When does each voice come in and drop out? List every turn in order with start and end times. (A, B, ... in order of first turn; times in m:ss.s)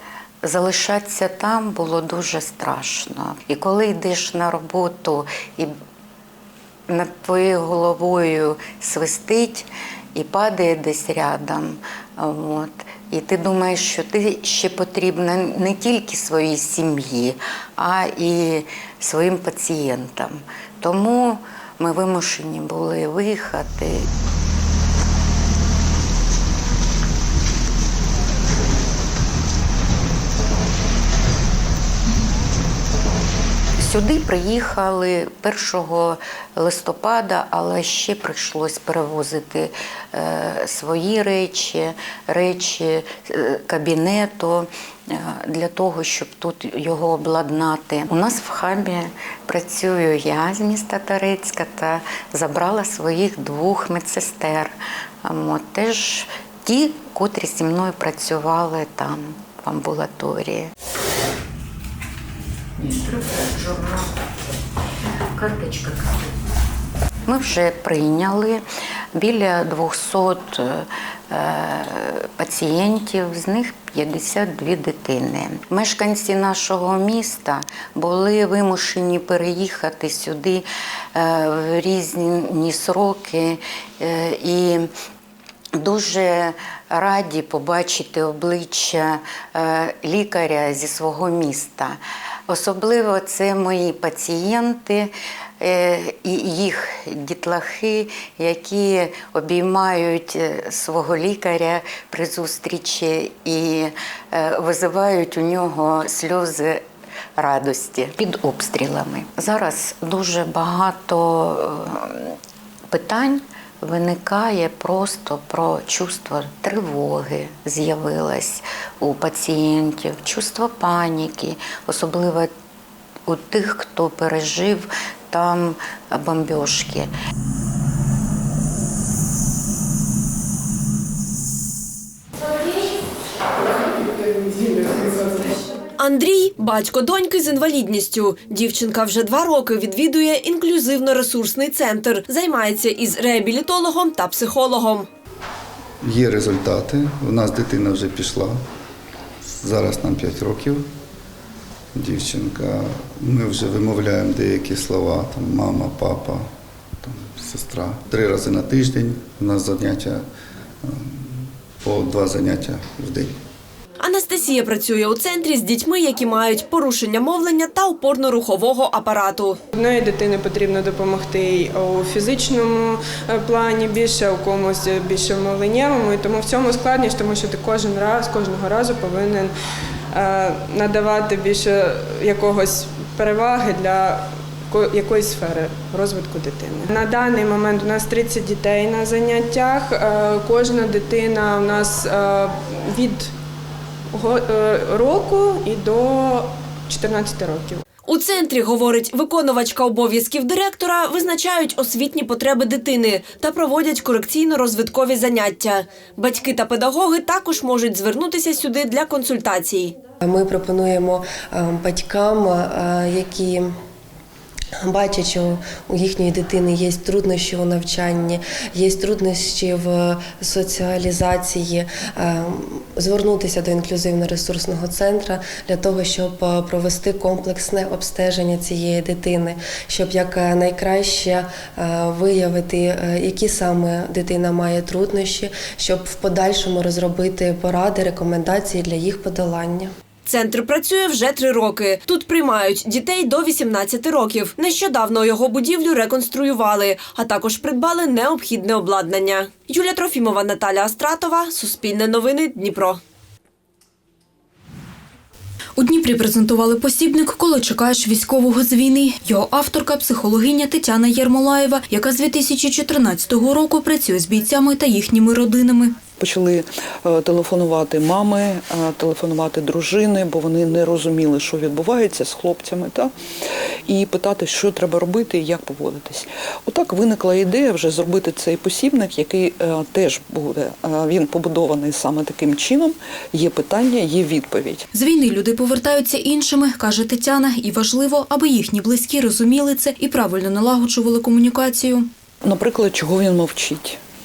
0:00.4-0:05.7 A
0:06.9-0:24.1 A
0:33.8-1:00.7 A
1:02.8-1:04.1 A
1:05.3-1:06.3 A
1:07.2-1:08.6 A
1:09.2-1:20.6 A
1:21.1-1:24.9 A
1:25.8-1:46.8 A
1:47.4-1:52.4 A
1:52.9-2:02.5 A
2:03.3-2:07.1 A
2:16.0-2:25.1 B
2:26.0-2:28.6 C
2:29.5-2:30.8 C
2:32.0-2:36.4 C
2:37.0-2:40.2 C
2:40.8-2:43.3 C
2:44.0-2:49.6 B
2:49.7-2:59.5 D
3:00.1-3:13.3 D
3:14.1-3:17.8 D
3:18.1-3:29.9 B
3:30.2-3:33.7 E
3:34.8-3:59.9 E
4:00.2-4:13.0 B
4:15.8-4:25.9 F
4:26.2-4:33.1 G
4:33.9-4:44.8 G
4:44.9-4:52.1 F
4:52.4-4:54.0 G